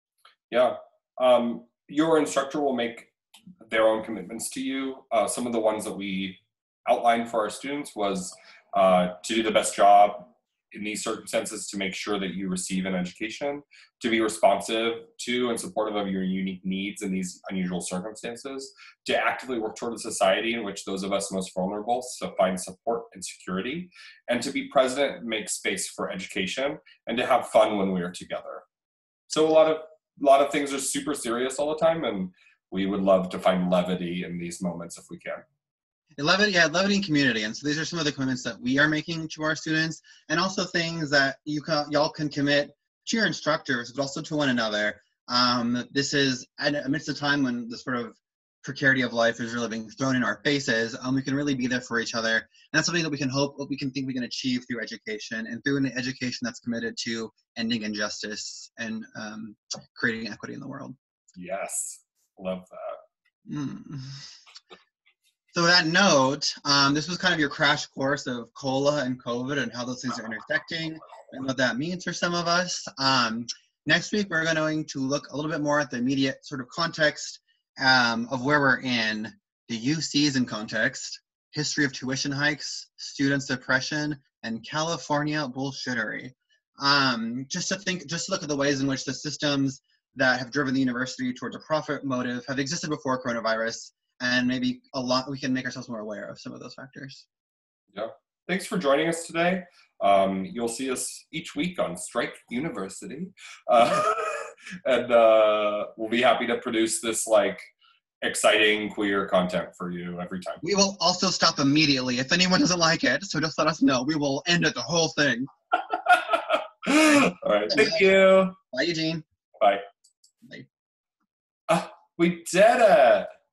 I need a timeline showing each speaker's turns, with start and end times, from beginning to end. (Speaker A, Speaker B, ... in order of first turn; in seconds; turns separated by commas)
Speaker A: 0.5-28.6, Speaker A: 29.3-35.4, Speaker B: 36.2-61.0, Speaker A: 61.4-63.0, Speaker B: 63.5-64.2, Speaker B: 65.5-97.3, Speaker A: 97.9-107.7, Speaker A: 108.2-110.6, Speaker B: 110.6-115.5, Speaker A: 115.9-118.6, Speaker B: 117.1-119.2, Speaker A: 121.7-123.3